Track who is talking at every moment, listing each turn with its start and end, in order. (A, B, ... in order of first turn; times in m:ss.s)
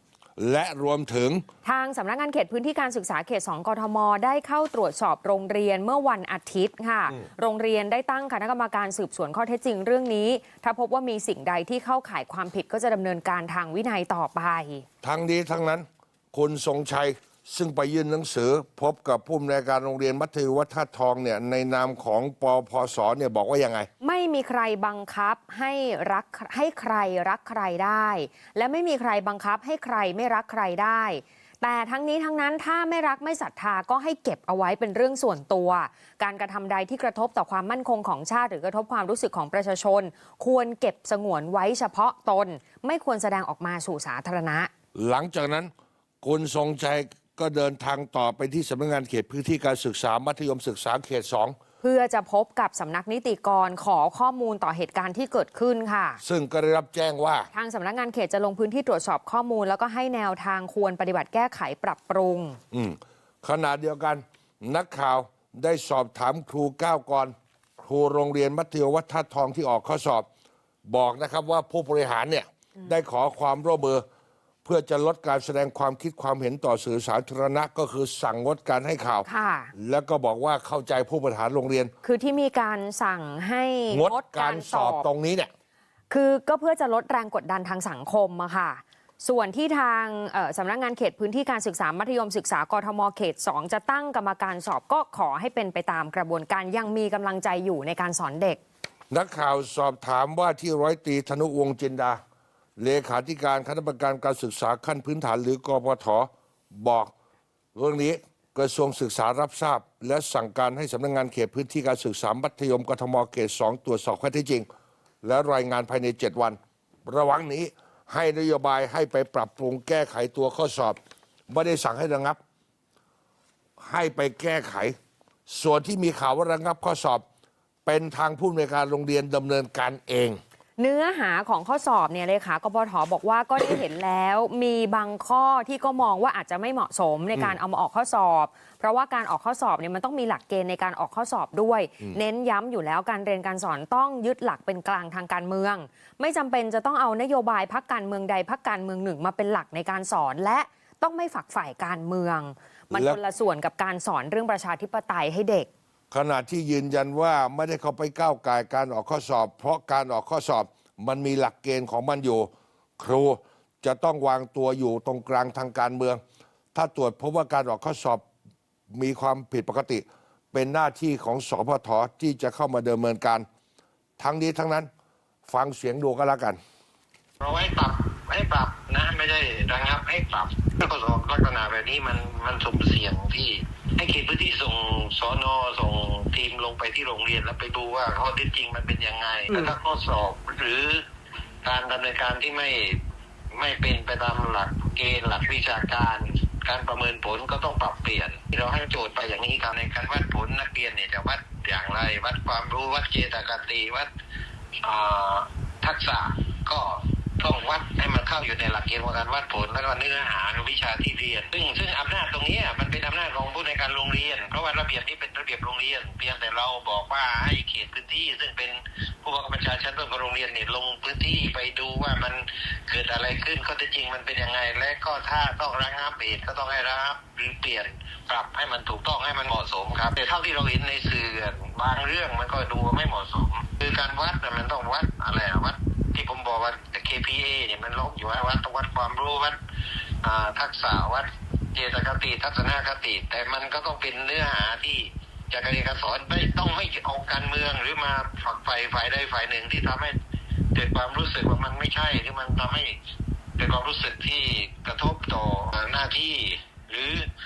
0:00.4-0:01.4 A
0:01.6-0:14.9 B
0:15.0-0:23.9 A
0:24.0-0:44.7 B
0:44.9-0:45.7 A
0:46.2-0:51.6 A
0:51.8-0:56.2 B
0:56.2-0:57.5 A
0:57.5-1:02.6 B
1:02.7-1:10.3 A
1:10.9-1:14.0 A
1:14.6-1:21.9 A
1:19.2-1:19.7 B
1:22.0-1:25.0 B
1:23.9-1:25.5 A
1:26.1-1:38.6 B
1:39.1-1:42.2 A
1:42.8-1:47.1 A
1:47.8-1:54.7 A
1:55.2-2:01.0 A
2:01.5-2:02.4 A
2:03.8-2:04.9 A
2:05.5-2:07.2 A
2:07.9-2:10.4 A
2:10.8-2:35.7 B
2:32.9-2:33.2 A
2:36.1-2:46.2 A
2:46.7-2:48.2 A
2:48.9-2:53.4 A
2:54.2-2:54.9 A
2:55.5-2:56.6 A
2:57.4-3:11.0 C
3:11.6-3:13.0 C
3:13.5-3:24.1 C
3:24.8-3:59.6 C
4:00.2-4:10.2 C
4:10.8-4:13.0 C
4:13.6-4:17.3 C